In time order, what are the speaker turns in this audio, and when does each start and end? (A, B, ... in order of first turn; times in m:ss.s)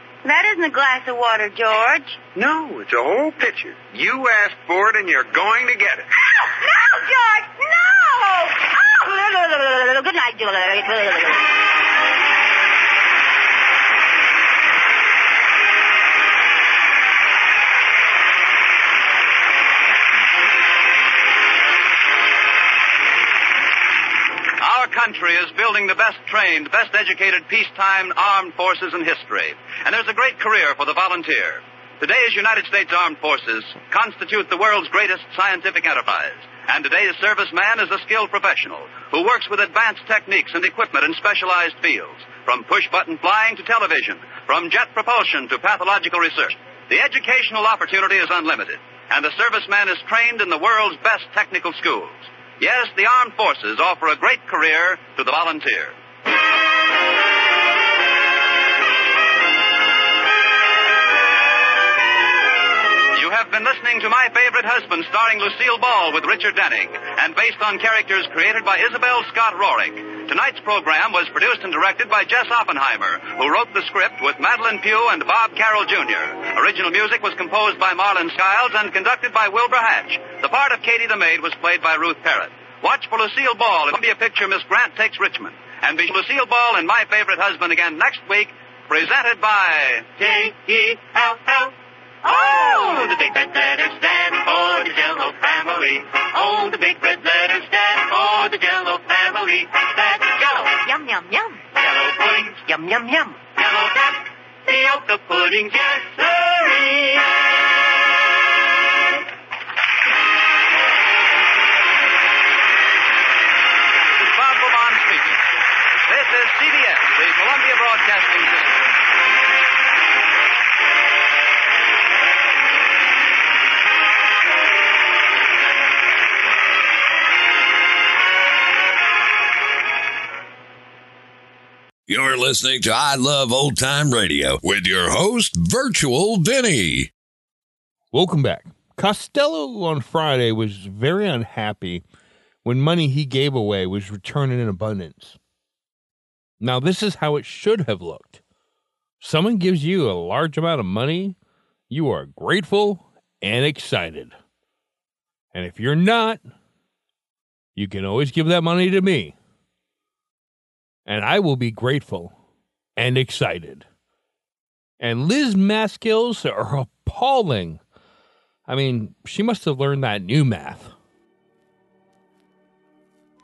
0:00.2-0:02.2 A
0:02.3-0:06.1 B
0:06.4-0:11.4 A
0:24.6-0:56.0 C
1:03.1-1:30.1 C
1:30.2-1:31.7 D
1:32.2-1:32.9 A
1:32.2-1:47.4 D
1:54.1-1:55.4 C
1:56.0-1:58.8 C
2:12.1-2:17.1 E
2:18.1-2:22.0 F
2:22.6-2:25.4 F
2:26.6-2:28.4 F
2:29.2-2:31.4 F
2:31.9-2:34.3 F
2:35.5-2:36.4 F
2:37.8-2:39.4 F
2:41.0-2:42.3 F
2:43.0-2:43.8 F
2:45.0-2:47.8 F
2:48.7-2:50.9 F